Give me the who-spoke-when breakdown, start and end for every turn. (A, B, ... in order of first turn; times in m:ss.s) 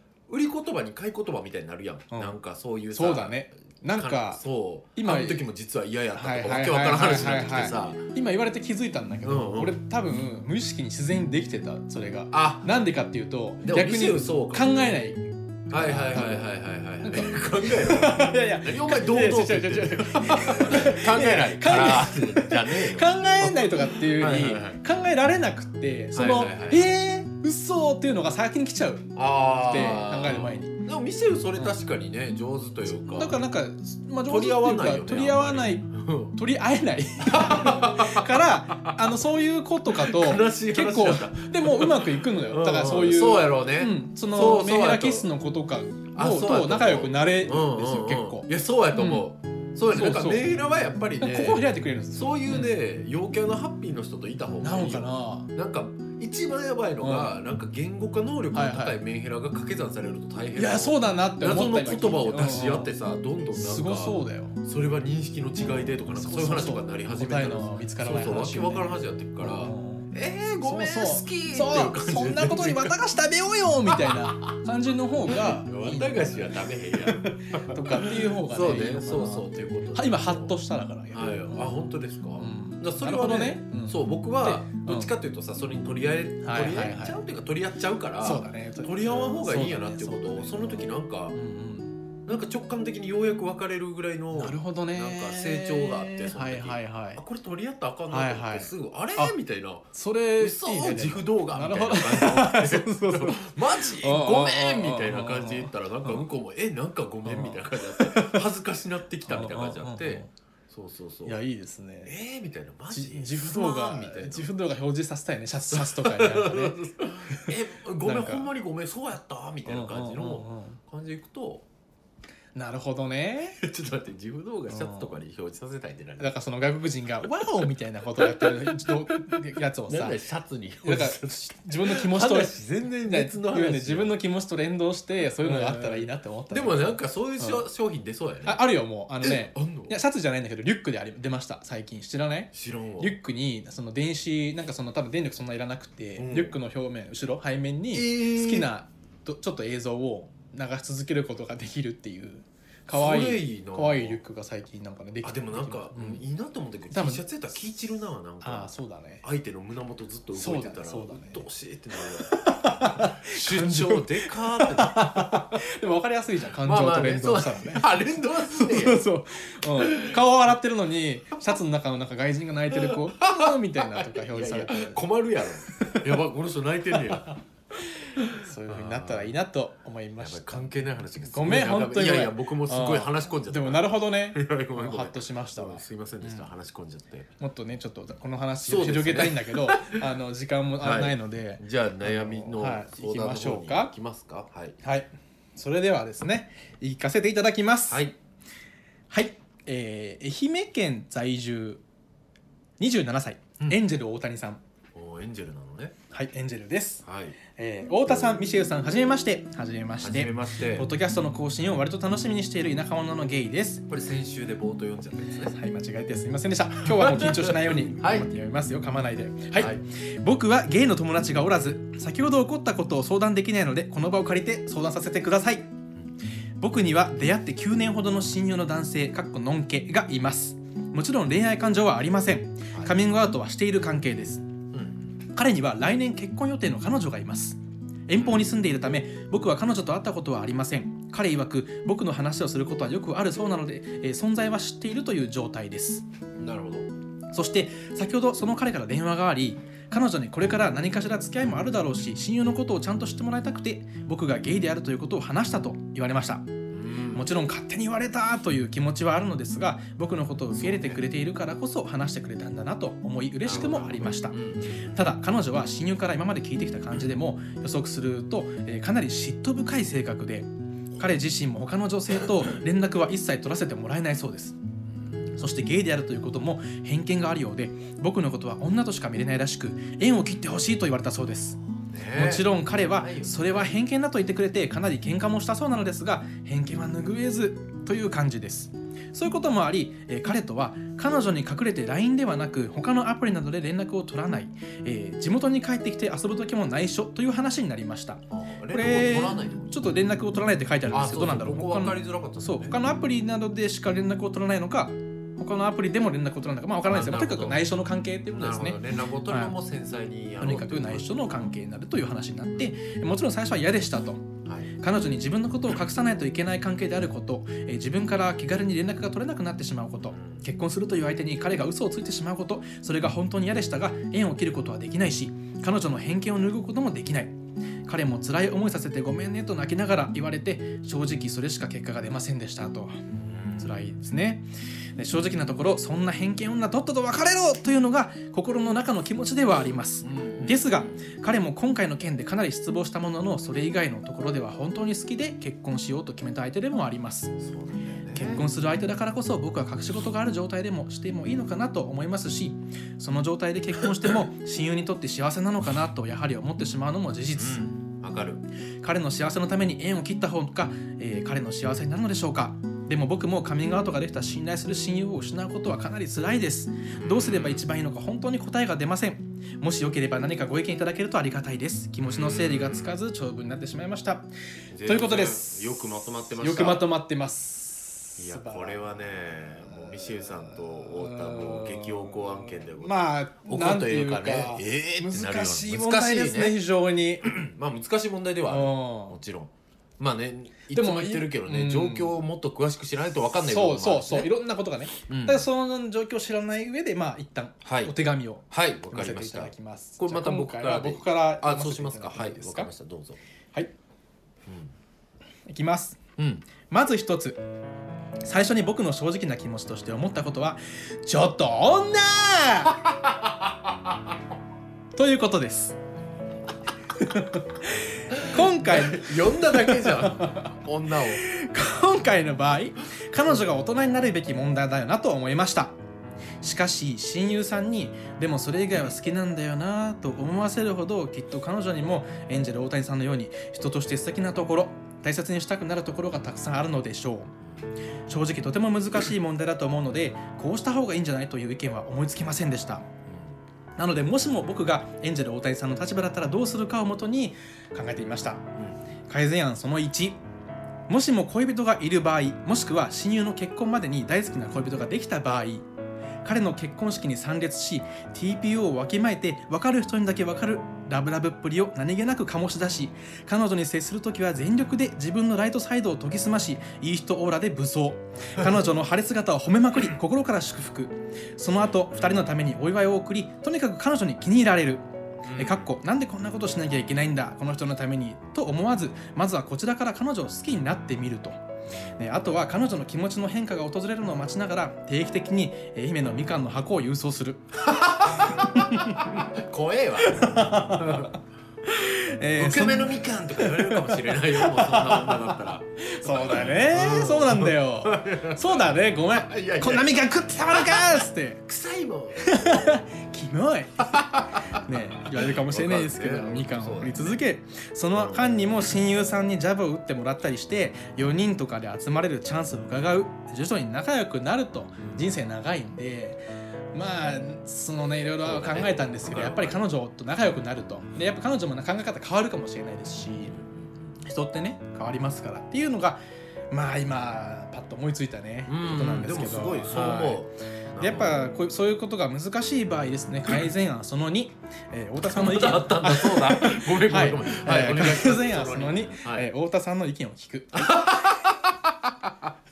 0:00.3-0:08.1 A
0:02.1-0:02.4 B
0:02.9-0:04.4 B
0:05.0-0:05.4 B
0:06.2-0:16.5 B
0:09.2-0:09.8 A
0:12.3-0:12.7 A
0:13.6-0:14.9 A
0:15.7-0:24.8 A
0:17.0-0:30.8 B
0:26.1-0:26.9 A
0:29.2-0:33.4 A
0:32.9-0:49.3 B
0:34.3-0:36.4 A
0:37.2-0:39.2 A
0:40.0-0:45.3 A
0:46.1-1:13.0 A
0:49.9-0:50.6 B
0:51.2-0:52.7 B
0:54.6-0:55.5 B
0:57.0-0:57.3 B
0:58.5-0:59.0 B
1:00.6-1:02.9 B
1:03.5-1:04.6 B
1:06.1-1:10.1 B
1:10.6-1:21.8 B
1:14.0-1:14.3 A
1:15.3-1:20.6 A
1:21.1-1:31.4 A
1:22.4-1:25.1 B
1:26.4-1:27.2 B
1:28.2-1:32.0 B
1:32.2-1:51.4 A
1:34.3-1:37.2 B
1:38.1-1:39.3 B
1:39.9-1:46.2 B
1:47.2-1:48.5 B
1:49.3-1:50.3 B
1:51.2-1:52.1 B
1:52.0-1:54.5 A
1:52.9-1:58.5 B
1:55.7-2:01.7 A
1:59.7-2:00.8 B
2:02.6-2:03.6 B
2:03.6-2:06.4 A
2:04.7-2:05.2 B
2:06.2-2:10.2 B
2:08.2-2:14.2 A
2:10.8-2:17.6 B
2:15.4-2:18.6 A
2:18.5-2:36.2 B
2:19.2-2:20.0 A
2:22.5-2:23.2 A
2:26.2-2:26.6 A
2:27.9-2:28.7 A
2:32.9-2:34.2 A
2:35.2-2:45.6 A
2:36.9-2:37.2 B
2:38.4-2:39.2 B
2:40.3-2:41.4 B
2:42.3-2:55.0 B
2:46.6-2:49.0 A
2:49.8-2:50.2 A
2:52.7-2:57.4 A
2:55.7-2:56.2 B
2:57.1-3:00.7 B
2:58.1-2:59.4 A
3:00.2-3:07.3 A
3:01.3-3:06.5 B
3:07.4-3:13.9 B
3:08.6-3:10.0 A
3:10.8-3:14.8 A
3:14.8-3:18.1 B
3:17.9-3:18.2 A
3:19.1-3:21.8 B
3:22.8-3:24.6 B
3:24.9-3:26.0 A
3:26.1-3:33.8 B
3:27.0-3:27.4 A
3:30.0-3:30.9 A
3:33.9-3:35.6 A
3:35.5-3:45.7 B
3:36.8-3:38.3 A
3:39.5-3:39.8 A
3:46.6-3:54.4 B
3:52.7-3:53.0 A
3:54.7-3:55.2 A
3:55.3-4:06.0 B
4:06.4-4:06.9 A
4:07.3-4:16.5 B
4:16.7-4:17.3 A
4:17.1-4:34.6 B
4:20.5-4:21.0 A
4:23.4-4:24.9 A
4:35.4-4:41.6 B
4:41.9-4:43.7 A
4:42.1-5:09.6 B
4:58.3-4:59.8 A
5:00.9-5:02.8 A
5:06.8-5:07.6 A
5:08.3-5:11.4 A
5:10.4-5:33.0 B
5:14.4-5:14.7 A
5:20.1-5:20.4 A
5:33.2-5:33.8 A
5:33.6-5:34.4 B
5:35.0-5:47.4 B
5:40.0-5:41.0 A
5:47.4-5:48.5 A
5:48.1-5:57.7 B
5:57.4-5:58.4 A
5:58.8-6:14.3 B
6:06.9-6:07.6 A
6:12.1-6:13.0 A
6:14.7-6:16.8 A
6:14.8-6:15.8 B
6:16.4-6:27.3 B
6:18.2-6:26.6 A
6:27.2-6:34.3 A
6:28.5-6:29.2 B
6:30.7-6:32.2 B
6:33.4-6:42.7 B
6:35.1-6:35.5 A
6:37.6-6:38.0 A
6:38.5-6:43.2 A
6:44.5-6:44.7 A
6:45.5-6:46.0 B
6:46.2-6:46.5 A
6:46.7-6:47.4 B
6:48.2-6:52.9 B
6:55.0-6:55.8 B
6:57.0-7:00.5 B
6:58.1-7:01.2 A
7:01.1-7:05.7 B
7:06.4-7:17.3 B
7:18.1-7:22.9 B
7:23.1-7:23.4 A
7:23.8-7:28.5 B
7:28.6-7:28.8 A
7:29.1-7:30.2 B
7:30.9-7:35.7 B
7:36.2-7:54.8 B
7:55.2-7:55.7 A
7:55.4-8:01.4 B
8:02.0-8:09.2 B
8:07.7-8:11.2 A
8:10.0-8:21.4 B
8:12.4-8:22.8 A
8:22.2-8:36.2 B
8:23.9-8:27.2 A
8:27.9-8:28.4 A
8:36.7-8:43.4 B
8:38.2-8:39.6 A
8:43.0-8:43.9 A
8:44.0-8:46.0 B
8:46.5-8:50.2 B
8:48.5-8:51.3 A
8:50.8-9:01.2 B
8:55.1-8:59.3 A
9:00.5-9:02.3 A